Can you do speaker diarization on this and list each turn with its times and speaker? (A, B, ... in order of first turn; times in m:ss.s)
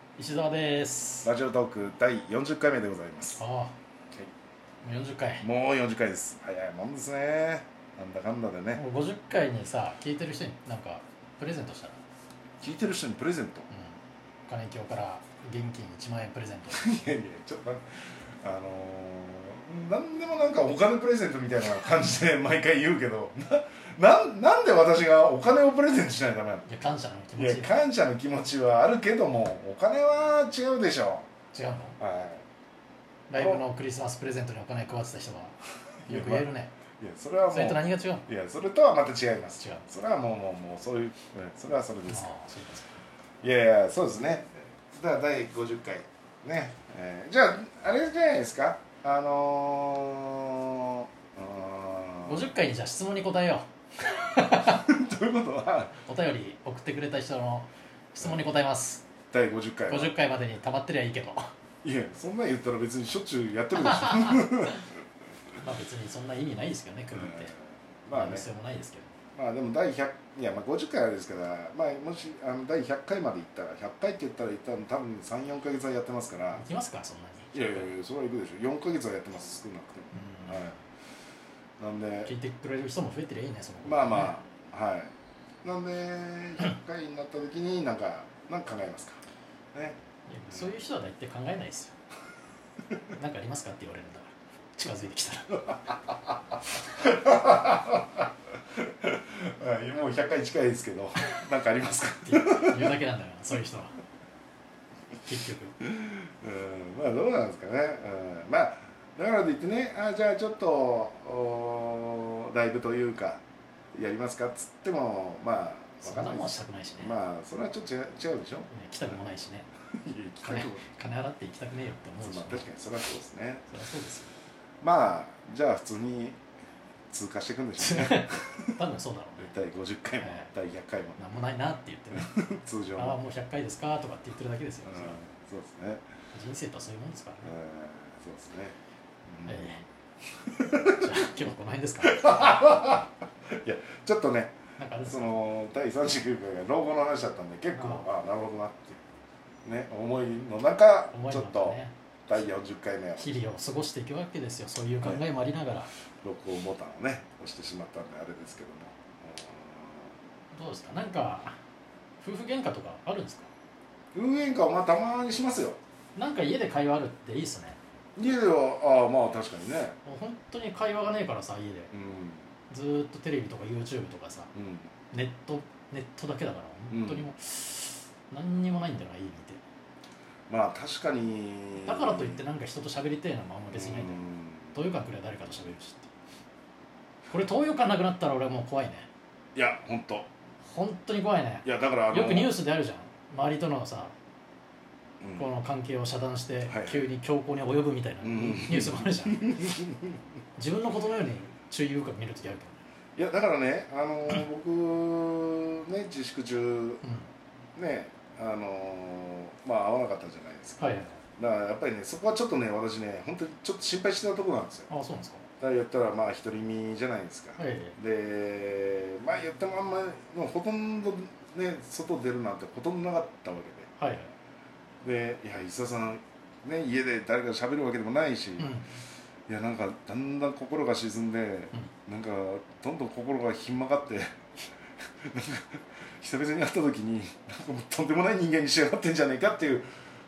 0:00.2-0:01.3 A
0:01.2-0:03.4 B
0:03.3-0:03.7 A
0:04.8-0:05.4 A
0:05.4-0:08.8 B
0:08.7-0:12.0 A
0:12.6-0:13.7 B
0:13.7-0:14.0 A
0:14.5-0:16.9 A
0:16.7-0:26.6 B
0:26.6-0:27.7 A
0:27.4-0:31.3 B
0:31.5-0:32.0 A
0:32.0-0:32.4 B
0:33.3-0:36.7 A
0:33.3-0:33.6 B
0:36.0-0:36.5 B
0:37.0-0:42.4 B
0:37.5-0:38.2 A
0:39.6-0:39.8 A
0:42.1-0:42.9 A
0:43.4-0:52.5 B
0:52.2-0:54.8 A
0:54.6-0:56.0 B
0:56.0-0:59.1 A
0:58.2-0:58.5 B
0:59.3-1:00.2 B
0:59.9-1:01.5 A
1:01.8-1:04.8 B
1:03.7-1:04.8 A
1:05.6-1:07.5 A
1:07.1-1:07.5 B
1:08.0-1:08.4 B
1:08.1-1:09.1 A
1:09.4-1:16.6 B
1:16.5-1:17.9 A
1:17.5-1:20.7 B
1:20.1-1:20.7 A
1:21.8-1:22.3 B
1:22.2-1:24.3 A
1:23.8-1:25.1 B
1:25.6-1:29.2 B
1:30.3-1:31.9 A
1:33.1-1:35.8 A
1:37.0-1:38.2 B
1:38.8-1:42.9 B
1:42.2-1:43.9 A
1:45.2-1:45.8 A
1:45.8-1:53.4 B
1:53.9-1:59.1 B
1:56.0-1:57.2 A
1:58.7-1:59.7 A
1:59.9-2:00.9 B
2:00.4-2:02.6 A
2:02.2-2:03.7 B
2:03.7-2:04.3 A
2:04.8-2:06.4 B
2:07.1-2:08.7 B
2:07.8-2:09.5 A
2:09.4-2:11.2 B
2:10.2-2:10.5 A
2:11.2-2:12.3 A
2:12.1-2:13.2 B
2:13.0-2:15.2 A
2:14.8-2:16.0 B
2:16.3-2:17.5 A
2:17.4-2:18.8 B
2:19.3-2:19.7 B
2:19.4-2:19.8 A
2:20.5-2:21.1 B
2:20.8-2:22.6 A
2:22.0-2:24.5 B
2:24.8-2:25.3 A
2:25.0-2:29.0 B
2:27.7-2:28.1 A
2:29.6-2:33.4 B
2:31.1-2:32.4 A
2:33.2-2:35.9 A
2:36.2-2:40.1 B
2:40.5-2:41.5 A
2:42.2-2:43.5 A
2:44.1-2:45.8 B
2:46.2-2:47.8 A
2:48.2-2:50.0 B
2:50.0-2:51.9 A
2:51.9-2:52.5 B
2:52.7-2:54.5 A
2:54.5-2:54.9 B
2:55.1-2:59.6 A
2:56.9-2:57.3 B
3:00.5-3:02.4 B
3:01.8-3:06.1 A
3:03.7-3:04.8 B
3:07.3-3:09.1 A
3:09.5-3:10.3 B
3:10.6-3:14.1 A
3:11.6-3:12.6 B
3:15.2-3:15.5 B
3:15.4-3:19.7 A
3:16.7-3:17.0 B
3:18.2-3:20.2 B
3:20.6-3:22.8 A
3:23.2-3:27.0 B
3:27.7-3:30.8 B
3:30.8-3:31.2 A
3:31.4-3:34.9 B
3:34.9-3:35.4 A
3:35.6-3:43.9 B
3:37.6-3:37.9 A
3:44.0-3:44.3 A
3:45.0-3:48.8 B
3:48.6-3:48.9 A
3:49.5-3:54.2 B
3:55.2-3:59.8 B